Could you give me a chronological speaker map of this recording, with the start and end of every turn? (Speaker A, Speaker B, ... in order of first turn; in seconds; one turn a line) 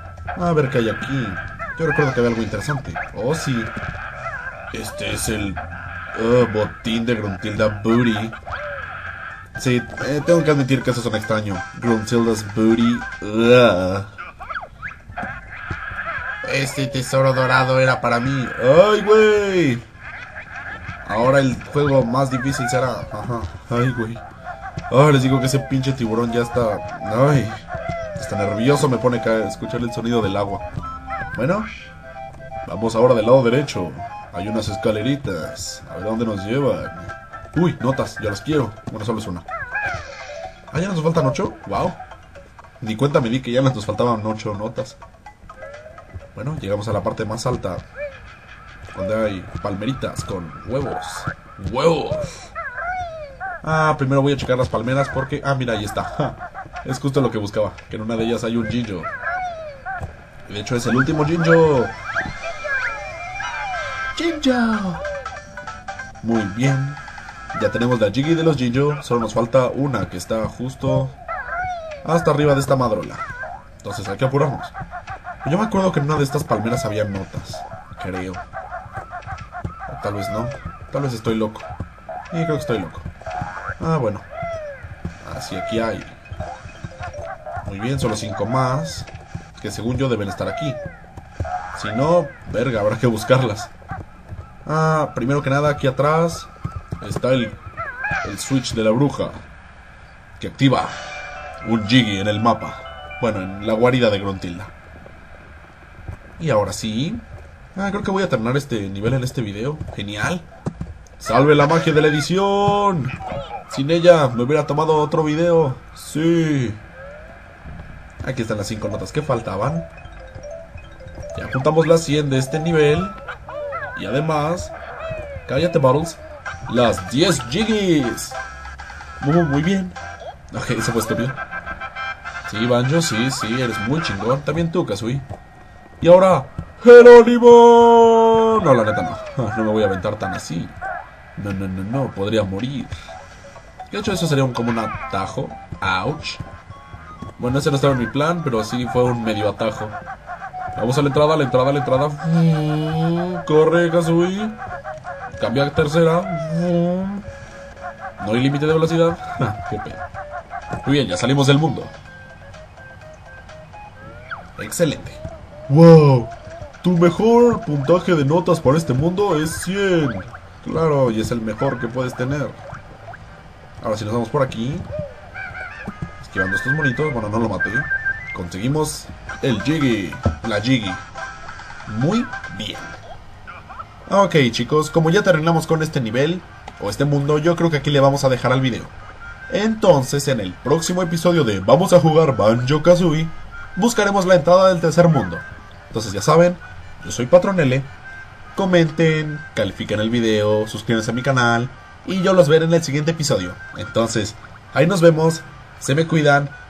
Speaker A: 0.4-3.7
Speaker A: 4.7-5.6
Speaker A: 6.1-8.4
Speaker A: 9.6-14.1
Speaker A: 16.4-19.8
Speaker A: 21.1-24.2
Speaker A: 24.9-27.6
Speaker A: 28.2-30.6
Speaker A: 31.3-31.7
Speaker A: 32.6-39.5
Speaker A: 40.7-42.0
Speaker A: 42.8-45.0
Speaker A: 46.3-47.9
Speaker A: 48.9-52.5
Speaker A: 53.6-59.1
Speaker A: 60.5-62.0
Speaker A: 64.2-65.0
Speaker A: 66.2-67.0
Speaker A: 67.5-71.2
Speaker A: 72.0-73.2
Speaker A: 73.8-74.8
Speaker A: 75.4-78.4
Speaker A: 79.9-81.7
Speaker A: 82.3-83.1
Speaker A: 83.8-84.3
Speaker A: 85.2-86.2
Speaker A: 87.6-90.8
Speaker A: 91.7-93.7
Speaker A: 94.7-96.5
Speaker A: 97.0-97.6
Speaker A: 98.2-99.5
Speaker A: 100.4-101.0
Speaker A: 101.6-104.7
Speaker A: 106.4-110.5
Speaker A: 111.2-113.2
Speaker A: 113.7-116.8
Speaker A: 118.2-119.9
Speaker A: 121.3-123.2
Speaker A: 123.9-124.7
Speaker A: 125.5-128.4
Speaker A: 129.2-130.0
Speaker A: 130.5-131.4
Speaker A: 132.5-135.3
Speaker A: 136.0-140.8
Speaker A: 141.4-142.9
Speaker A: 143.9-146.4
Speaker A: 147.4-150.0
Speaker A: 150.7-154.6
Speaker A: 155.4-157.3
Speaker A: 158.2-160.1
Speaker A: 160.8-161.9
Speaker A: 164.6-172.6
Speaker A: 173.8-174.9
Speaker A: 176.2-181.0
Speaker A: 181.9-183.0
Speaker A: 184.1-188.9
Speaker A: 189.5-197.9
Speaker A: 198.6-206.6